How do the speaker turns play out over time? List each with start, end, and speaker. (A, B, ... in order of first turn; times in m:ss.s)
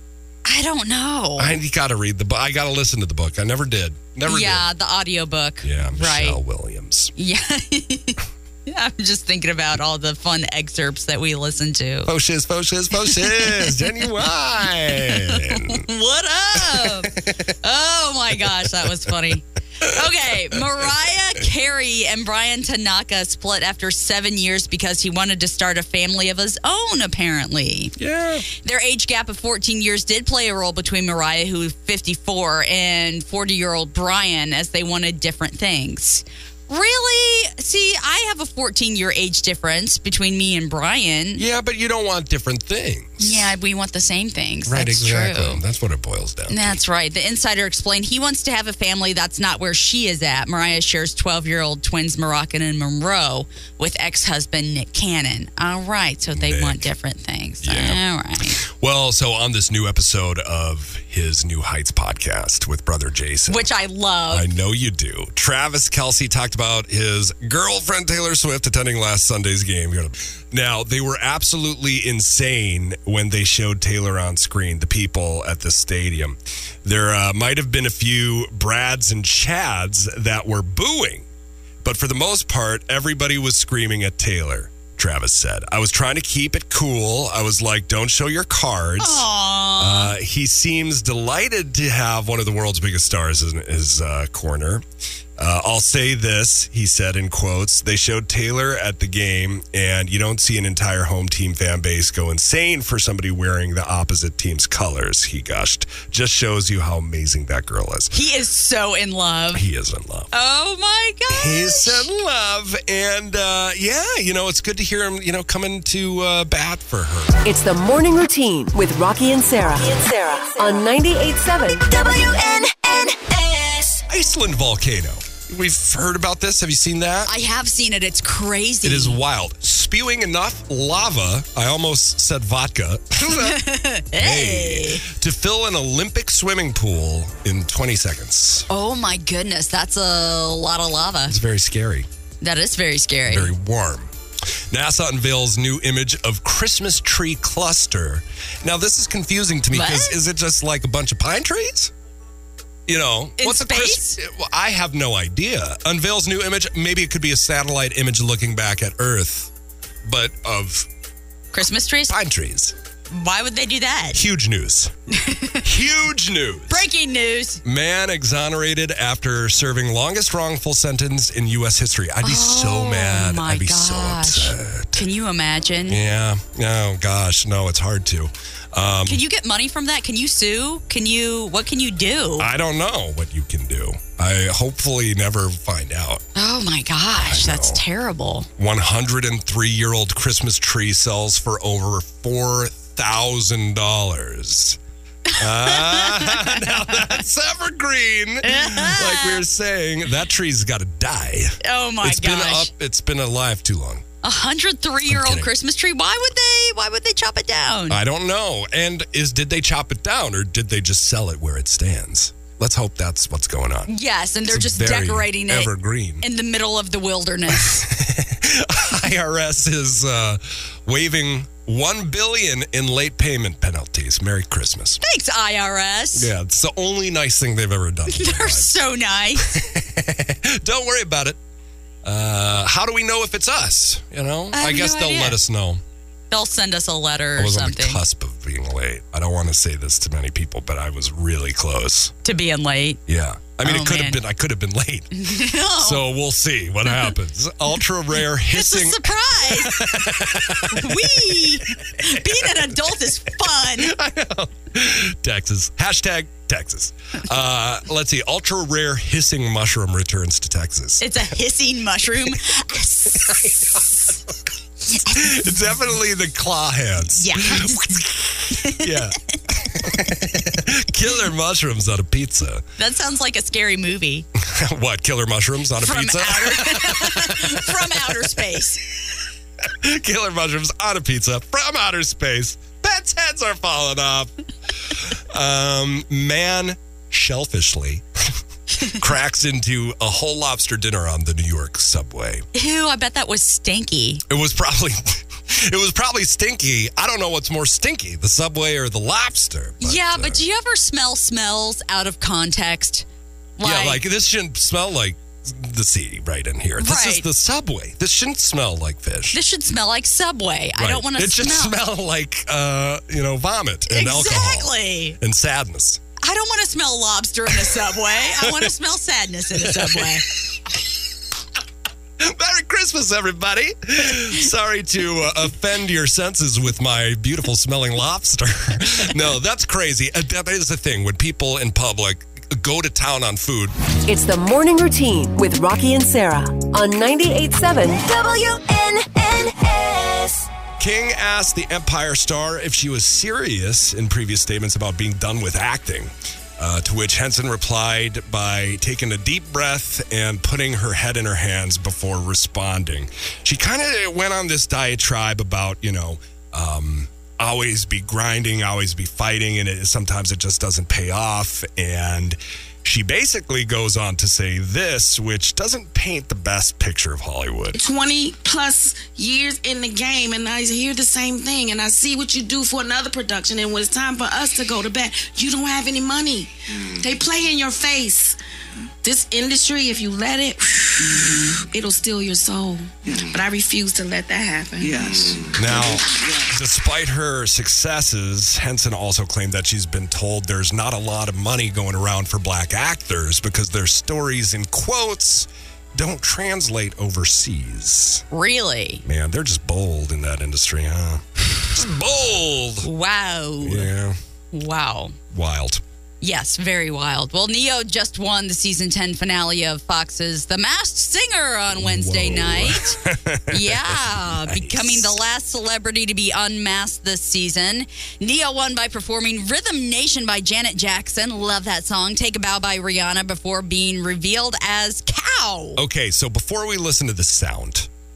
0:00.4-0:01.6 A
0:01.4-0:04.7 B
0:04.3-0:06.4 A
0:05.6-0:07.1 B
0:07.2-0:12.1 A
0:12.1-0:15.8 B
0:13.0-0:14.1 A
0:14.9-0:28.0 A
0:16.6-0:17.3 B
0:18.8-0:19.1 B
0:20.5-0:20.8 B
0:28.0-0:28.5 B
0:28.5-0:41.4 A
0:41.4-0:43.5 B
0:43.2-0:45.6 A
0:44.7-0:46.8 B
0:46.5-0:58.6 A
0:56.3-0:56.8 B
0:57.6-1:03.7 B
1:03.5-1:04.5 A
1:04.3-1:21.3 B
1:21.8-1:34.8 B
1:29.0-1:30.1 A
1:35.4-1:48.1 B
1:48.1-1:49.6 A
1:49.5-1:50.3 B
1:50.3-1:52.1 A
1:51.3-1:57.4 B
1:57.4-2:02.1 C
2:02.8-2:04.0 D
2:04.1-2:07.3 B
2:07.2-2:09.2 A
2:08.8-2:18.7 B
2:13.3-2:15.1 A
2:18.7-2:21.4 A
2:21.3-2:22.1 B
2:22.4-2:23.5 A
2:23.2-2:24.1 B
2:24.7-2:31.9 B
2:29.7-2:30.2 A
2:32.9-2:39.5 B
2:33.4-2:34.2 A
2:40.0-2:40.9 B
2:41.5-2:42.1 A
2:42.1-2:42.8 B
2:43.1-2:44.2 A
2:44.1-2:44.9 B
2:45.1-2:45.7 A
2:45.6-2:46.9 B
2:46.7-2:47.6 A
2:47.6-2:55.0 B
2:52.2-2:56.0 A
2:55.9-2:59.2 B
2:59.1-3:02.5 A
3:02.4-3:06.2 B
3:06.4-3:08.5 A
3:07.2-3:07.8 B
3:08.6-3:14.8 B
3:15.3-3:16.8 A
3:15.4-3:24.0 B
3:18.4-3:19.4 A
3:21.6-3:22.7 A
3:24.2-3:28.0 A
3:25.1-3:25.5 B
3:27.9-3:33.9 B
3:33.9-3:37.8 A
3:34.5-3:36.2 B
3:37.5-3:45.0 B
3:45.0-3:46.3 A
3:46.1-3:48.7 B
3:48.1-3:49.6 A
3:49.4-3:51.4 B
3:52.0-3:55.8 B
3:54.5-3:55.4 A
3:56.3-3:58.0 A
3:57.4-4:02.1 B
4:02.2-4:03.0 A
4:03.1-4:05.1 B
4:03.6-4:04.2 A
4:05.1-4:06.0 A
4:05.7-4:21.3 B
4:08.3-4:14.0 A
4:21.0-4:24.2 A
4:23.1-4:24.2 B
4:24.9-4:25.6 A
4:25.1-4:32.7 B
4:27.1-4:30.0 A
4:32.8-4:34.3 A
4:34.4-4:38.4 B
4:35.8-4:38.8 A
4:39.6-4:44.3 B
4:44.9-4:48.3 B
4:48.9-4:52.4 B
4:52.5-4:54.2 A
4:54.3-5:00.4 B
4:59.8-5:03.0 A
5:03.6-5:04.0 A
5:03.6-5:09.4 B
5:06.8-5:07.2 A
5:09.3-5:11.8 A
5:10.8-5:16.0 B
5:13.9-5:15.2 A
5:16.2-5:20.2 A
5:17.5-5:18.7 B
5:19.5-5:20.4 B
5:22.2-5:33.8 B
5:34.0-5:40.2 C
5:38.3-5:40.4 D
5:40.8-6:07.8 B
6:07.8-6:18.4 E
6:19.0-6:26.4 E
6:25.5-6:38.2 B
6:38.3-6:39.0 A
6:39.0-6:42.9 B
6:42.8-6:43.9 A
6:43.6-6:44.2 B
6:44.5-6:45.2 A
6:45.3-6:45.8 B
6:46.2-7:05.8 A
6:51.7-6:55.2 B
7:05.8-7:07.9 B